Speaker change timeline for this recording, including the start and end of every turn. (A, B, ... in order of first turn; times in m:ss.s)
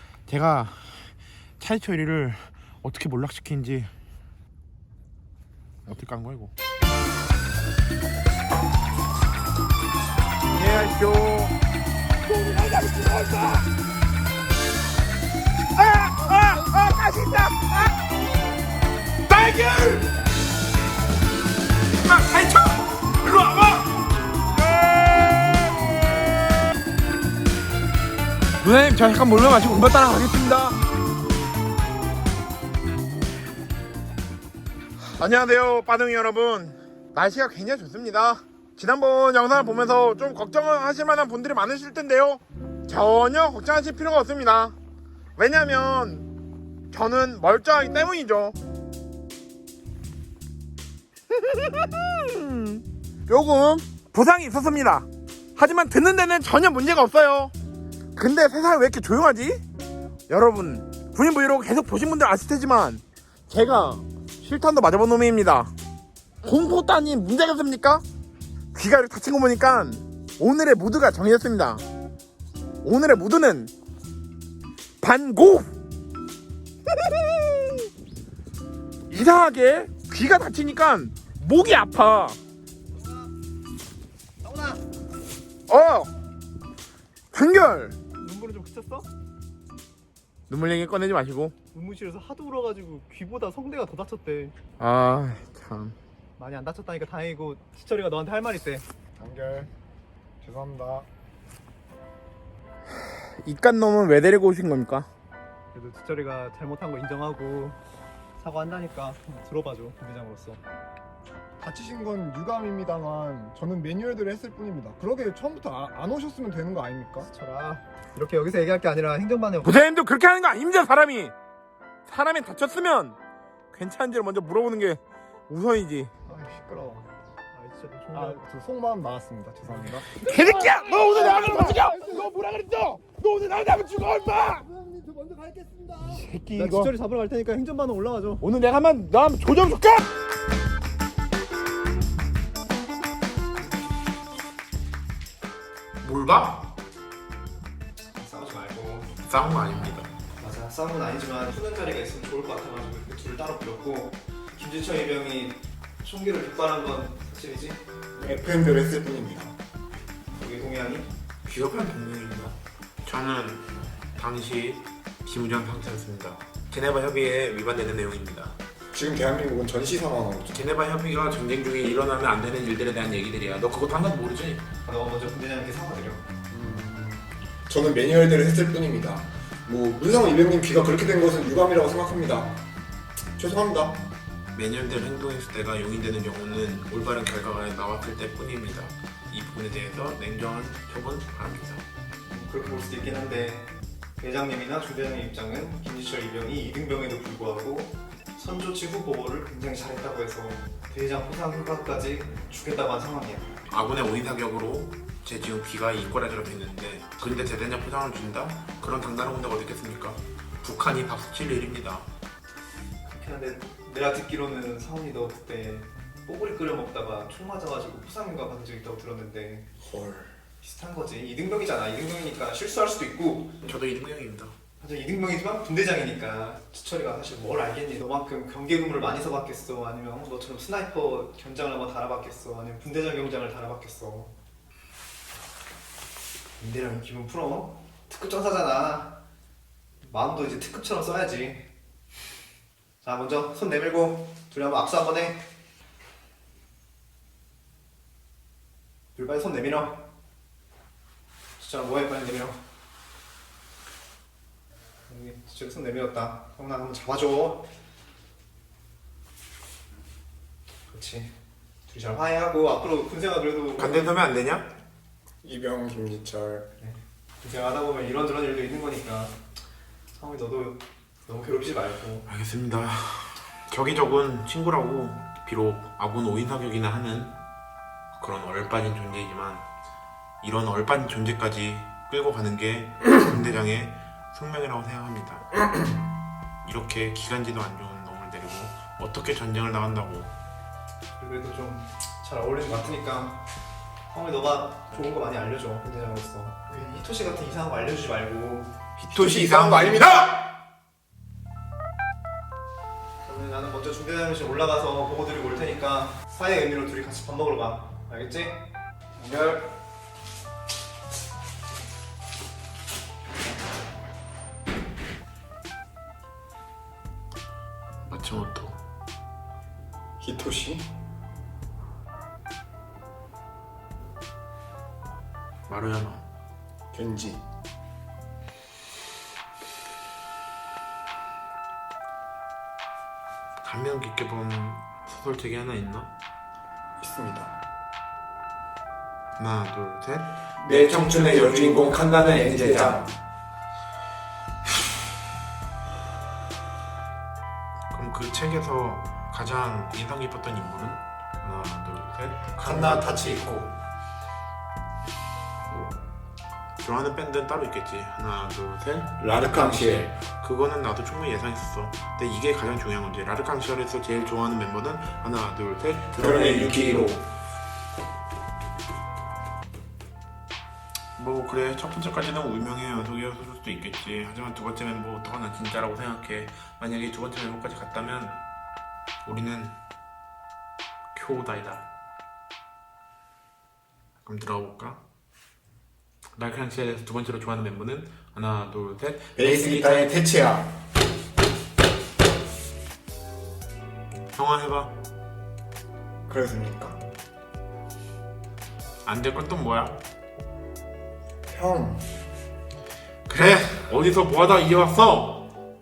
0:00.3-0:03.9 A
0:05.9-0:06.5 A
0:10.5-0:11.5 A
0:12.2-0:13.7 A
0:15.8-0:18.0 A
0:19.3-0:20.2 A
0:22.0-0:23.9 A
0:24.5-0:26.5 A
0:28.6-0:30.8 A
0:35.0-0:44.8 A
0:45.4-0:46.3 A
0:46.9-0:48.6 A
0:51.3-0:57.5 A
0:58.2-0:59.6 A
1:00.3-1:05.7 A
1:06.4-1:08.0 A
1:08.7-1:11.8 A
1:12.8-1:13.7 A
1:15.0-1:15.7 A
1:17.1-1:17.9 A
1:19.1-1:22.4 A
1:24.4-1:24.8 B
1:25.7-1:26.1 A
1:27.3-1:28.0 A
1:28.1-1:29.1 B
1:30.5-1:31.5 A
1:31.7-1:34.6 B
1:34.8-1:36.0 A
1:36.4-1:38.8 B
1:39.2-1:39.7 C
1:40.4-1:41.1 C
1:43.0-1:45.1 A
1:45.7-1:47.8 B
1:48.4-1:50.6 B
1:51.6-1:57.3 C
1:57.2-1:59.8 B
1:59.6-2:01.3 A
2:02.1-2:03.2 A
2:03.7-2:06.1 A
2:06.3-2:07.1 C
2:07.5-2:08.4 B
2:08.1-2:10.2 C
2:10.0-2:14.7 A
2:11.0-2:12.0 C
2:14.6-2:16.2 C
2:16.0-2:16.9 A
2:16.6-2:18.4 B
2:18.4-2:20.1 A
2:26.0-2:26.7 A
2:28.2-2:29.1 B
2:29.2-2:30.1 A
2:30.4-2:37.8 B
2:38.2-2:39.6 C
2:40.3-2:41.1 B
2:41.4-2:48.6 A
2:48.9-2:50.6 C
2:50.5-2:54.6 A
2:54.8-2:56.3 B
2:56.5-3:02.6 C
3:03.4-3:04.0 C
3:04.5-3:11.8 A
3:12.3-3:23.5 B
3:23.7-3:32.1 A
3:33.1-3:39.7 B
3:39.8-3:40.3 C
3:40.6-3:43.5 B
3:43.6-3:44.5 A
3:44.8-3:54.3 B
3:56.6-3:59.2 B
4:00.0-4:01.7 B
4:03.0-4:05.4 B
4:09.2-4:10.0 B
4:11.6-4:12.6 B
4:15.1-4:17.7 B
4:20.9-4:21.3 B
4:21.9-4:24.0 B
4:23.8-4:24.7 A
4:25.4-4:26.7 C
4:26.8-4:29.4 B
4:30.2-4:32.3 B
4:32.3-4:37.4 A
4:38.2-4:39.7 A
4:40.4-4:45.7 A
4:46.6-4:50.3 A
4:51.2-4:53.4 B
4:54.1-4:59.0 B
4:59.1-5:00.3 C
4:59.1-5:00.4 A
5:03.2-5:08.6 B
5:09.2-5:09.6 B
5:18.1-5:18.8 A
5:20.2-5:20.8 C
5:25.7-5:26.3 A
5:26.9-5:27.4 C
5:33.6-5:36.1 A
5:37.0-5:37.5 C
5:39.4-5:43.1 A
5:40.6-5:43.1 C
5:47.9-5:53.4 A
5:52.6-5:53.7 C
5:56.8-6:07.2 A
5:59.2-6:00.1 C
6:06.2-6:07.2 C
6:11.2-6:18.4 A
6:19.2-6:19.8 A
6:21.1-6:21.9 A
6:24.2-6:25.0 A
6:26.4-6:30.3 A
6:29.4-6:30.7 C
6:34.4-6:34.9 A
6:36.3-6:37.0 C
6:39.0-6:40.0 A
6:41.5-6:42.0 C
6:43.3-6:45.5 A